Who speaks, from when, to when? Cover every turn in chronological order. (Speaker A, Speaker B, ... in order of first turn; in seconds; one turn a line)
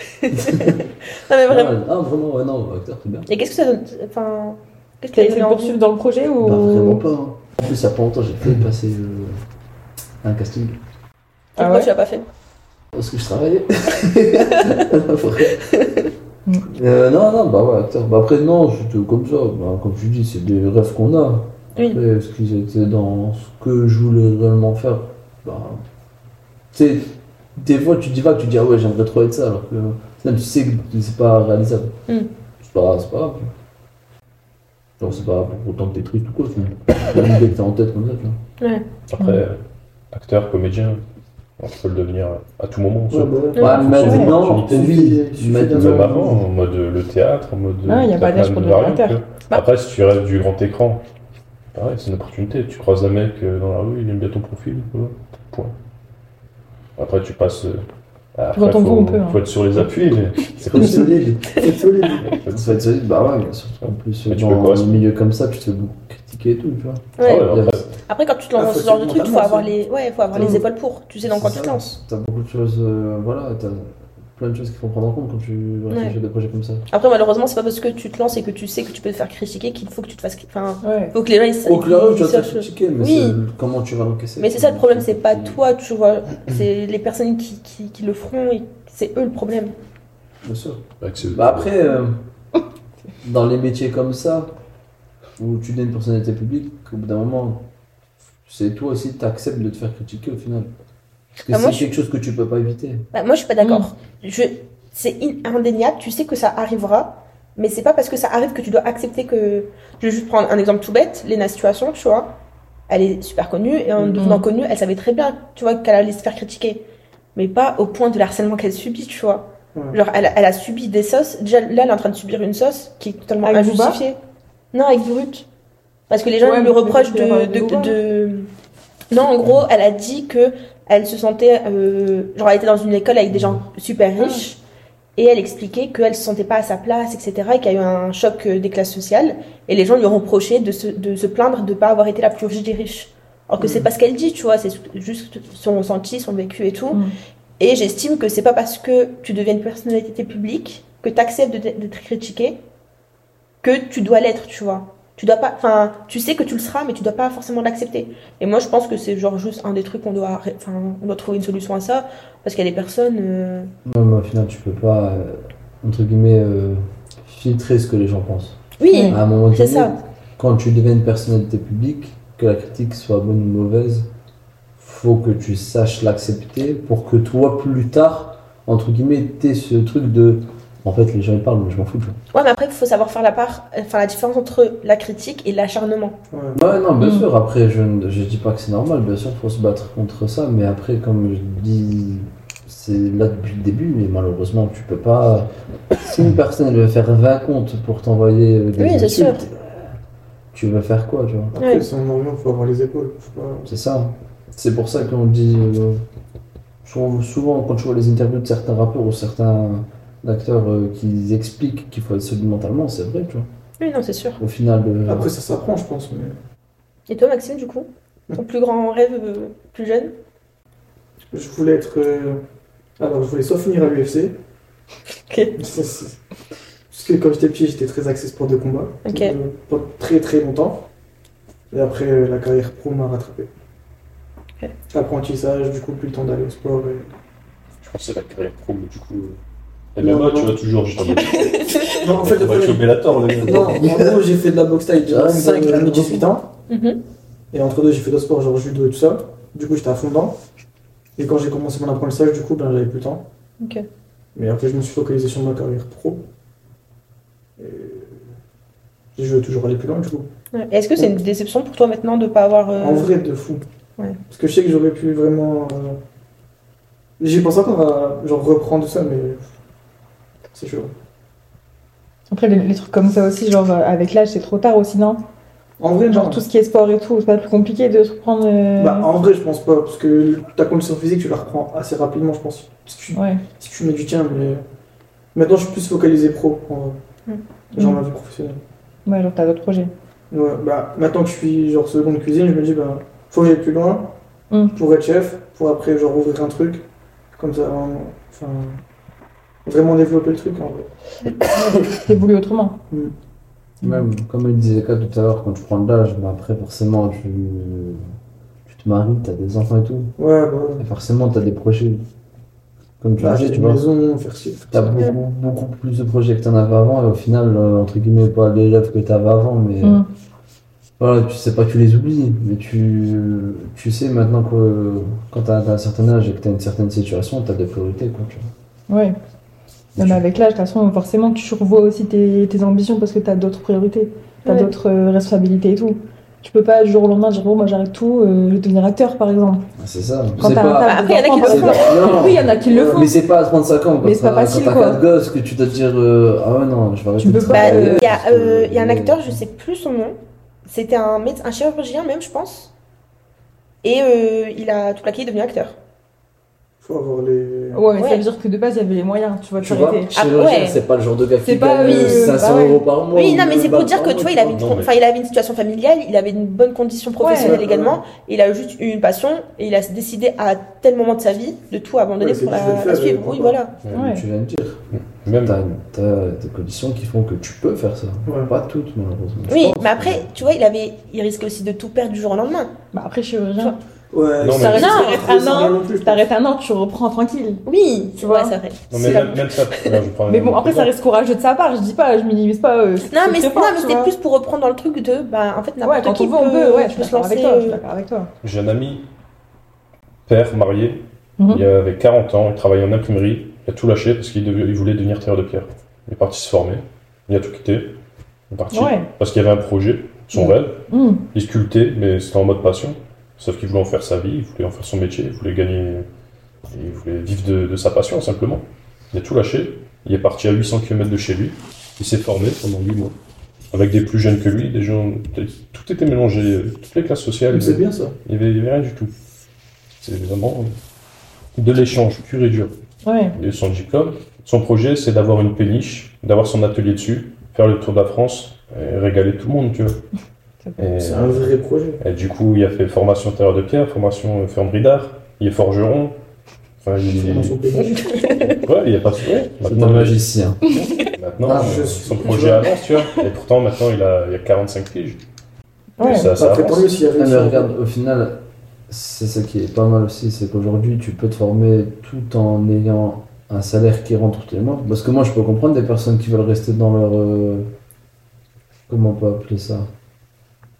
Speaker A: 0.1-1.8
Speaker B: 0.3-0.8
Speaker B: 1.5-3.3
Speaker A: 3.3-5.8
Speaker C: 5.1-7.0
Speaker B: 6.4-9.4
Speaker B: 10.2-10.8
Speaker A: 11.6-12.3
Speaker C: 11.6-11.9
Speaker B: 12.9-15.6
Speaker A: 15.6-16.1
Speaker B: 16.7-25.8
Speaker B: 26.7-32.0
Speaker B: 32.6-33.5
Speaker B: 35.0-38.4
Speaker A: 38.6-38.9
Speaker D: 39.1-39.6
Speaker C: 39.2-39.4
Speaker D: 40.1-41.0
Speaker D: 41.6-45.0
Speaker E: 43.1-46.4
Speaker C: 43.6-44.4
Speaker B: 43.6-46.0
Speaker D: 45.6-51.0
Speaker C: 47.9-49.2
Speaker D: 51.7-55.7
Speaker D: 57.0-61.2
Speaker C: 58.5-59.4
Speaker B: 60.6-61.8
Speaker E: 60.8-62.4
Speaker D: 62.3-62.8
Speaker B: 62.5-67.8
Speaker D: 63.8-65.0
Speaker A: 67.2-67.5
Speaker D: 67.2-67.9
Speaker A: 68.0-72.0
Speaker E: 68.5-69.7
Speaker B: 70.3-70.6
Speaker B: 71.2-76.8
Speaker A: 75.9-76.2
Speaker A: 76.9-83.4
Speaker C: 80.8-81.1
Speaker B: 81.6-85.6
Speaker A: 84.4-89.7
Speaker B: 90.4-92.2
Speaker D: 91.0-91.7
Speaker B: 93.2-94.5
Speaker B: 95.4-97.7
Speaker B: 98.5-100.7
Speaker B: 101.4-103.1
Speaker A: 101.5-101.9
Speaker A: 103.1-112.3
Speaker C: 103.6-103.9
Speaker A: 112.9-124.2
Speaker C: 114.2-114.5
Speaker E: 119.7-120.0
Speaker C: 123.4-124.0
Speaker A: 124.7-125.5
Speaker A: 126.1-128.5
Speaker C: 126.4-128.0
Speaker A: 129.1-134.6
Speaker C: 134.2-134.5
Speaker A: 135.2-147.0
Speaker E: 143.6-143.9
Speaker A: 147.6-152.6
Speaker A: 153.6-163.7
Speaker B: 163.8-174.1
Speaker A: 168.8-169.9
Speaker C: 168.9-169.2
Speaker B: 174.8-182.2
Speaker A: 182.3-186.2
Speaker E: 186.3-186.6
Speaker B: 186.5-199.8
Speaker C: 187.0-187.3
Speaker A: 198.8-199.4
Speaker B: 200.5-201.6
Speaker E: 201.5-203.7
Speaker A: 201.6-201.8
Speaker B: 203.7-206.0
Speaker B: 206.8-213.5
Speaker A: 213.8-214.4
Speaker B: 214.4-215.3
Speaker E: 215.1-216.4
Speaker A: 217.1-220.1
Speaker E: 221.2-222.4
Speaker E: 223.0-224.4
Speaker A: 225.3-225.5
Speaker E: 225.6-226.2
Speaker E: 226.9-230.9
Speaker A: 229.1-229.3
Speaker E: 231.7-233.5
Speaker E: 234.9-237.1
Speaker D: 237.8-239.4
Speaker D: 239.9-243.8
Speaker E: 240.0-240.6
Speaker C: 241.0-242.0
Speaker A: 241.2-242.1
Speaker E: 242.0-246.5
Speaker B: 243.6-244.2
Speaker B: 245.0-246.3
Speaker A: 246.7-247.0
Speaker E: 247.5-250.4
Speaker E: 251.2-253.3
Speaker A: 253.6-253.8
Speaker E: 254.3-256.3
Speaker E: 257.6-258.3
Speaker E: 259.1-260.3
Speaker A: 260.5-263.1
Speaker E: 262.8-263.6
Speaker E: 264.3-266.0
Speaker E: 267.2-269.4
Speaker E: 270.5-270.9
Speaker C: 272.3-275.2
Speaker E: 275.8-276.4
Speaker C: 276.1-279.1
Speaker E: 278.8-284.6
Speaker C: 283.1-283.4
Speaker E: 285.3-287.0
Speaker E: 287.7-288.6
Speaker C: 287.8-288.0
Speaker C: 289.1-289.9
Speaker E: 290.3-294.2
Speaker C: 294.5-294.7
Speaker E: 294.7-298.8
Speaker E: 299.6-300.9
Speaker C: 301.4-302.8
Speaker B: 303.8-308.0
Speaker B: 308.6-310.1
Speaker E: 310.2-310.8
Speaker B: 310.8-312.0
Speaker B: 313.0-313.9
Speaker E: 313.2-315.1
Speaker B: 314.7-320.0
Speaker B: 321.0-328.5
Speaker C: 328.9-329.2
Speaker C: 329.9-339.7
Speaker B: 330.0-330.2
Speaker A: 334.4-334.7
Speaker B: 339.8-349.4
Speaker C: 340.4-343.1
Speaker A: 340.8-342.2
Speaker C: 344.0-345.0
Speaker C: 347.2-348.0
Speaker A: 347.5-352.7
Speaker A: 353.8-355.8
Speaker E: 356.8-357.8
Speaker C: 357.7-360.1
Speaker A: 357.9-358.2
Speaker B: 359.6-364.6
Speaker A: 360.1-360.8
Speaker C: 361.4-362.8
Speaker A: 361.8-362.6
Speaker A: 363.1-373.7
Speaker D: 364.5-364.9
Speaker C: 367.2-367.6
Speaker E: 367.3-368.0
Speaker E: 372.2-373.6
Speaker D: 373.8-374.2
Speaker C: 373.9-374.2
Speaker B: 373.9-380.4
Speaker D: 374.9-375.6
Speaker E: 378.2-378.5
Speaker A: 379.5-382.7
Speaker C: 382.9-383.8
Speaker E: 384.1-386.2
Speaker D: 384.4-385.1
Speaker C: 384.5-387.6
Speaker A: 384.7-385.3
Speaker A: 387.6-389.9
Speaker C: 388.2-388.5
Speaker D: 388.9-390.9
Speaker C: 390.3-394.1
Speaker A: 393.1-397.8
Speaker C: 395.8-398.3
Speaker D: 398.4-399.1
Speaker D: 400.3-416.1
Speaker C: 401.4-401.6
Speaker C: 408.7-409.1
Speaker C: 410.3-411.2
Speaker D: 416.7-423.1
Speaker D: 423.7-429.1
Speaker E: 427.5-428.1
Speaker D: 430.0-430.8
Speaker D: 431.5-432.7
Speaker C: 433.0-433.4
Speaker D: 433.3-440.1
Speaker D: 440.8-446.2
Speaker E: 441.0-442.0
Speaker D: 446.8-447.6
Speaker E: 447.1-448.0
Speaker A: 447.8-448.6
Speaker D: 448.4-455.2
Speaker B: 449.6-450.8
Speaker C: 450.6-450.9
Speaker B: 451.4-451.9
Speaker E: 451.5-452.8
Speaker C: 456.0-456.3
Speaker D: 456.0-456.9
Speaker E: 456.1-457.7
Speaker B: 457.1-467.7
Speaker B: 468.9-469.9